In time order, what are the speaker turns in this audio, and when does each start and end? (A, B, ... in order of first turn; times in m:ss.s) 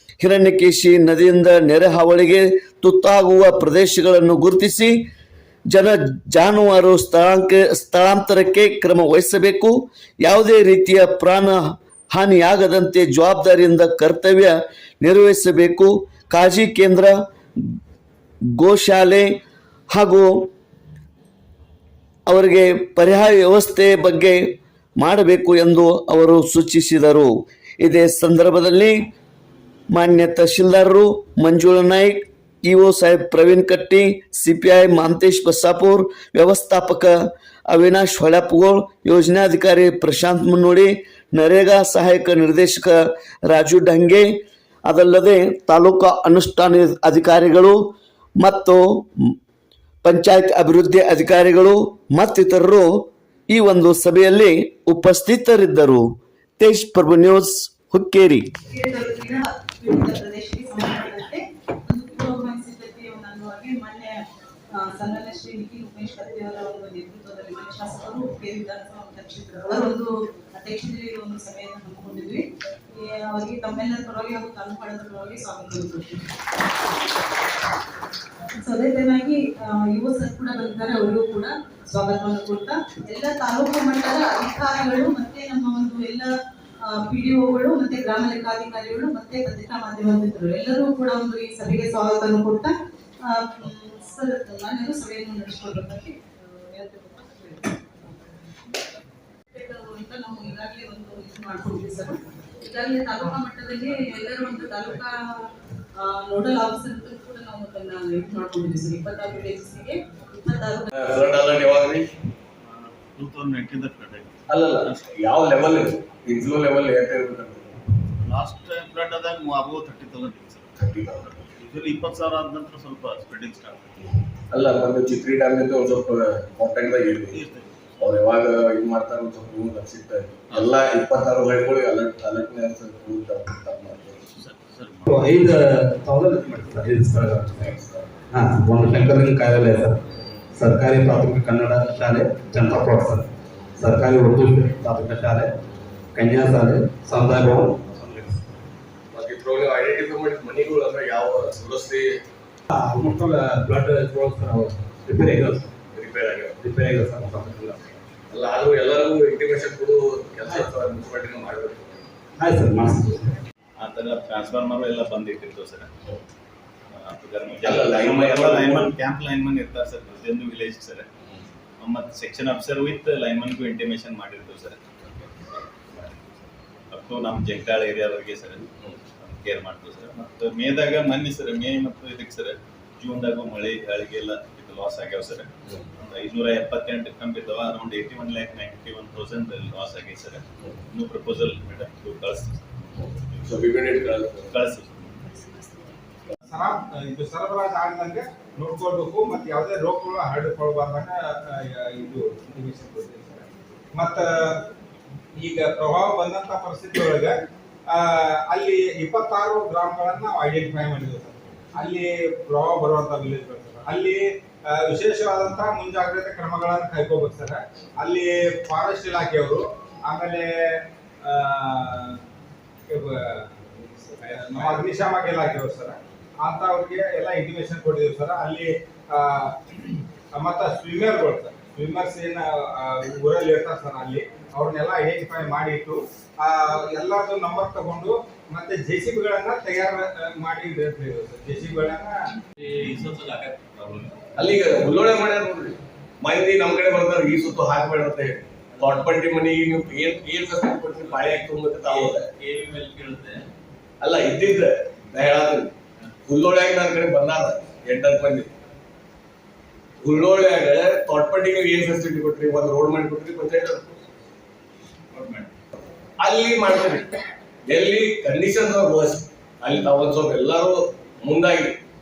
0:00.2-0:05.0 A
0:05.7-0:17.7 A
0:18.6-0:19.3 A
0:19.9-0:20.5 A
0:22.3-0:29.1 A
0:29.9-0:37.1 A
0:37.7-0:44.3 A
0:44.8-0:47.8 A
0:48.4-0:49.3 A
0:50.0-0:56.0 A
0:56.6-0:58.5 A
0:58.7-1:04.2 B
1:04.8-1:16.3 B
1:18.6-1:26.3 B
1:26.9-1:32.7 B
1:33.2-1:38.8 B
1:39.5-1:45.1 B
1:46.0-1:51.0 B
1:51.0-1:52.1 C
1:52.6-1:55.0 D
1:54.5-1:57.8 C
1:58.2-2:00.7 D
2:00.8-2:01.4 C
2:01.2-2:04.1 D
2:04.5-2:07.4 C
2:07.2-2:07.9 D
2:08.0-2:14.2 C
2:14.3-2:15.3 D
2:15.1-2:17.7 E
2:17.6-2:18.1 C
2:18.3-2:20.0 E
2:20.6-2:25.5 E
2:26.1-2:28.4 E
2:29.1-2:32.2 C
2:32.7-2:35.8 E
2:35.9-2:36.6 C
2:36.6-2:37.9 E
2:38.3-2:42.1 C
2:40.5-2:40.7 E
2:42.4-2:43.4 E
2:43.8-2:45.9 D
2:46.9-2:51.1 D
2:47.6-2:48.9 C
2:51.8-3:13.1 D
3:13.4-3:14.6 C
3:14.5-3:15.6 D
3:16.5-3:24.6 F
3:25.3-3:42.2 F
3:42.9-4:02.2 F
4:02.6-4:04.2 D
4:04.4-4:12.3 C
4:11.1-4:13.4 D
4:14.0-4:15.7 C
4:16.2-4:18.5 C
4:20.0-4:23.8 C
4:25.1-4:25.5 D
4:26.2-4:31.8 C